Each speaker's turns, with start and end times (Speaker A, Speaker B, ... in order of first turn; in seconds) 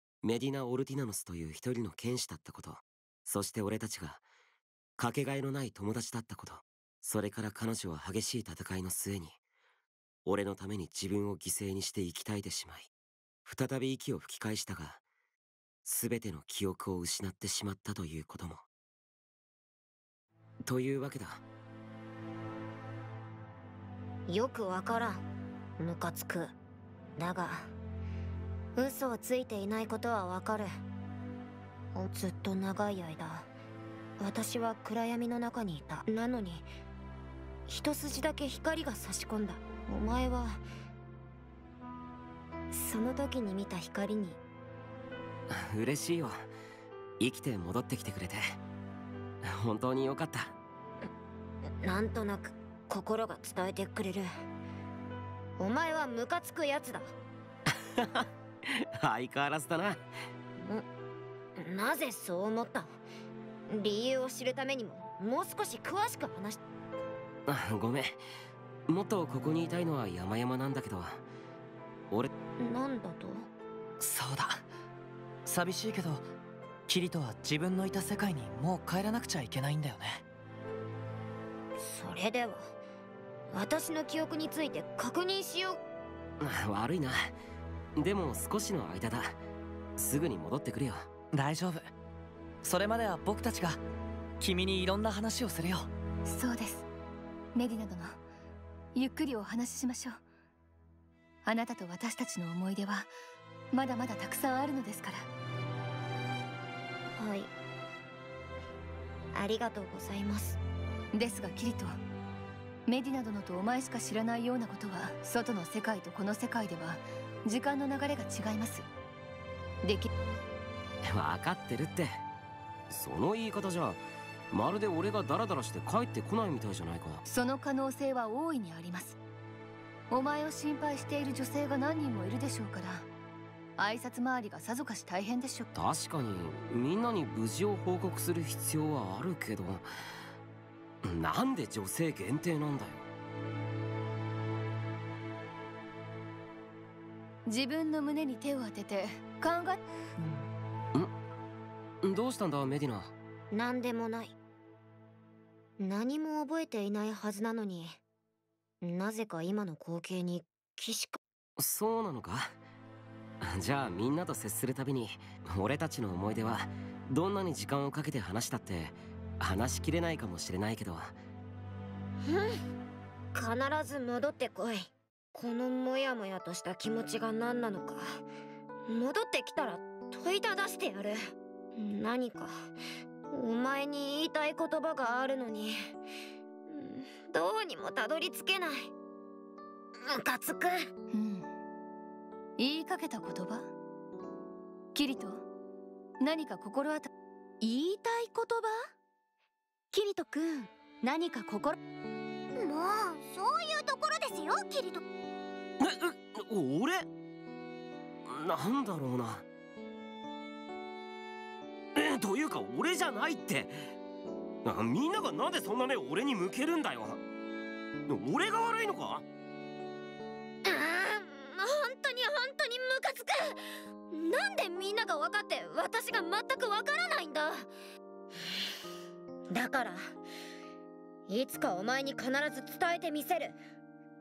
Speaker A: 0.2-4.2, 5.0-9.4, 10.2-12.9, 13.4-15.0, 15.8-18.6, 20.6-21.4, 45.5-46.5, 47.2-48.6, 49.4-50.5, 57.7-60.0, 67.5-68.2, 68.9-71.2, 86.4-87.3, 88.0-89.4, 90.0-91.1, 121.0-122.2, 122.9-127.2, 135.7-139.8, 141.0-143.1, 150.2-151.1, 152.0-153.1, 161.6-162.6, 163.4-171.2, 205.8-207.1, 208.2-209.4, 211.9-213.9, 214.6-217.2, 218.1-219.2
Speaker B: 24.3-25.2, 25.8-26.5, 27.2-27.7, 28.7-30.7, 31.9-33.5, 34.2-36.7, 37.7-40.6, 42.7-44.4, 51.8-54.3, 55.6-57.1, 60.6-60.8, 61.5-63.0, 63.7-66.6, 72.6-73.5, 81.8-82.7, 83.5-85.8, 107.2-107.5, 109.3-110.6, 153.5-154.3, 155.8-158.0, 158.8-161.2, 172.2-172.6, 173.3-178.2, 178.9-182.7, 183.3-185.9, 186.7-188.9, 190.0-190.9, 220.6-223.6, 224.1-227.7, 229.5-230.0, 231.3-233.6
Speaker C: 74.0-74.6, 75.5-76.2, 76.9-80.2, 91.3-91.8, 92.6-93.8, 94.4-95.9
Speaker D: 96.3-96.8, 97.5-98.2, 98.9-100.2, 101.4-103.1, 103.7-105.3, 111.1-112.0, 112.9-118.8, 119.8-120.1, 127.2-129.2, 130.1-133.1, 133.8-135.7, 147.4-149.8, 191.1-191.5, 192.6-193.7, 194.9-195.4, 196.2-197.1
Speaker E: 197.6-198.8, 199.9-201.8
Speaker F: 202.6-205.0